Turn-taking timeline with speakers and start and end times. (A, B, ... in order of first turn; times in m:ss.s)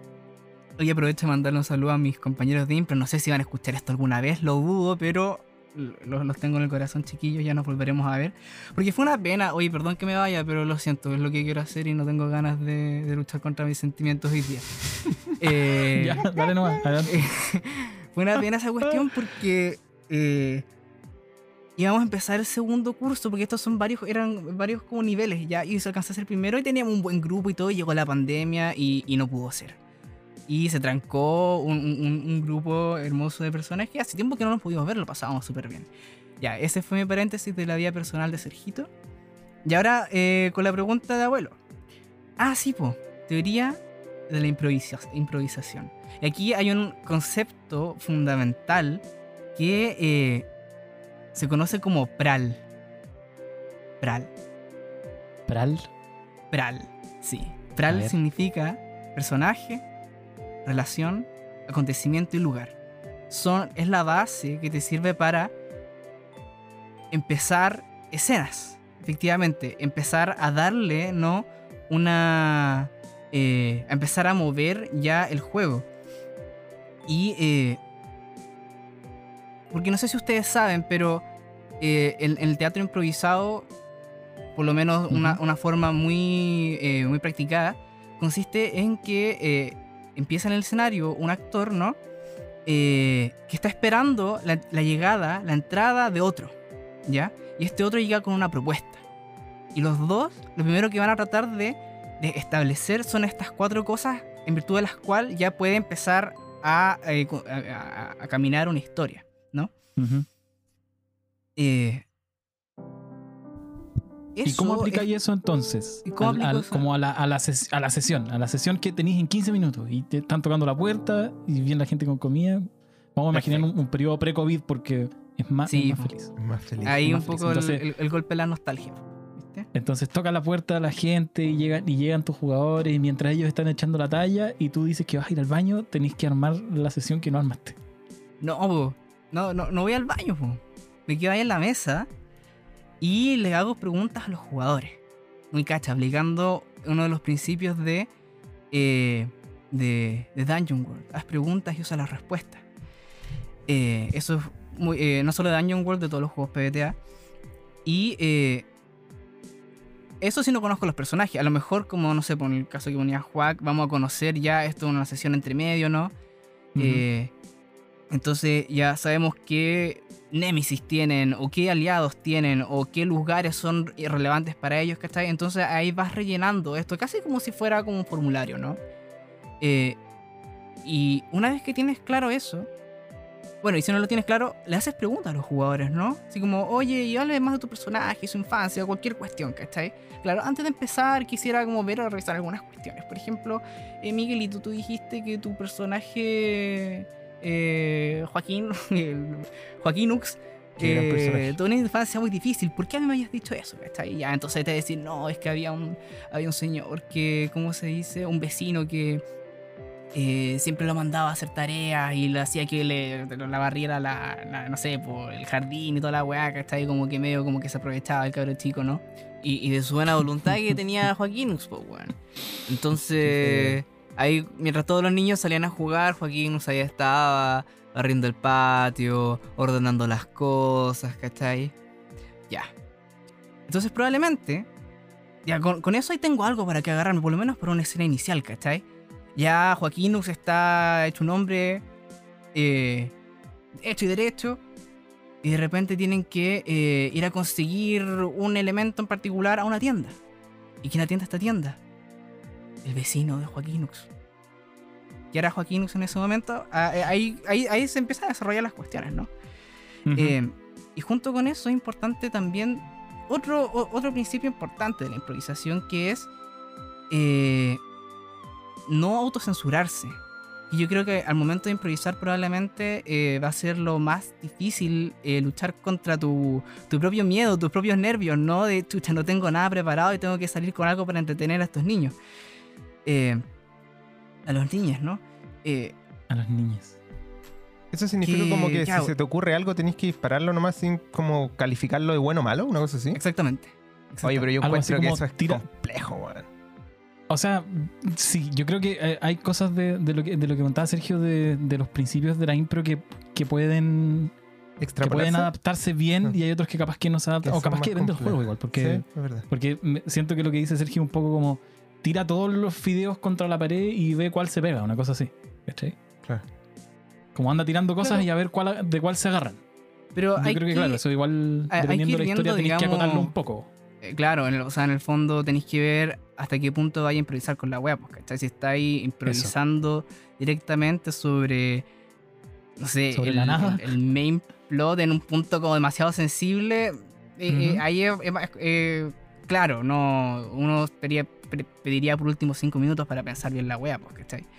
0:00.8-0:16.3 A
0:15.9-0:17.3 B
0:17.0-0:20.6 A
0:21.8-0:29.8 A
0:30.5-0:35.9 A
0:36.4-0:38.9 A
0:39.6-0:41.6 A
0:42.4-0:49.0 A
0:49.6-0:50.5 A
0:51.3-0:52.6 A
0:54.0-0:54.3 A
0:55.5-0:55.9 B
0:56.5-0:59.8 A
0:57.8-0:58.2 B
1:00.6-1:02.8 A
1:03.3-1:05.5 A
1:07.1-1:15.8 A
1:17.1-1:17.8 A
1:19.7-1:21.2 A
1:21.8-1:23.7 A
1:24.5-1:32.0 A
1:25.1-1:25.4 B
1:32.6-1:36.5 A
1:37.1-1:39.0 A
1:39.7-1:49.7 A
1:50.0-1:50.2 B
1:51.6-1:52.0 A
1:54.3-1:55.1 A
1:54.4-2:06.3 B
1:56.0-1:56.8 A
2:03.3-2:03.6 A
2:05.7-2:06.1 A
2:06.4-2:07.2 C
2:06.8-2:09.7 A
2:07.0-2:07.8 B
2:09.7-2:17.8 B
2:18.4-2:22.1 A
2:23.0-2:25.0 A
2:25.5-2:28.1 A
2:28.7-2:32.6 A
2:33.7-2:37.0 A
2:37.8-2:38.6 A
2:40.2-2:46.1 A
2:46.7-2:47.0 B
2:46.8-2:47.3 A
2:48.1-2:58.8 A
2:59.6-3:00.0 A
3:00.8-3:02.7 A
3:03.6-3:29.2 A
3:20.8-3:21.6 C
3:30.1-3:51.7 A
3:43.2-3:43.8 B
3:53.7-3:54.7 A
3:55.4-3:58.8 A
3:59.3-4:01.8 A
4:02.5-4:03.1 A
4:03.8-4:04.6 A
4:05.4-4:10.2 A
4:10.8-4:11.8 A
4:12.8-4:14.1 A
4:15.3-4:19.3 A
4:20.0-4:20.4 B
4:20.1-4:26.3 A
4:27.1-4:27.8 A
4:28.9-4:30.2 A
4:30.7-4:42.1 A
4:43.0-4:43.4 A
4:44.4-4:45.9 A
4:46.3-4:47.0 B
4:47.9-4:53.2 C
4:48.2-4:49.1 A
4:53.1-4:54.5 A
4:54.2-4:56.5 C
4:54.6-4:55.6 B
4:57.3-5:04.3 B
5:04.8-5:05.5 C
5:05.0-5:16.0 B
5:07.4-5:09.5 C
5:17.3-5:19.6 B
5:20.1-5:21.0 A
5:20.4-5:23.7 B
5:21.7-5:23.3 A
5:24.0-5:31.8 A
5:29.2-5:29.5 B
5:32.8-5:44.4 A
5:33.1-5:33.9 B
5:37.5-5:37.8 B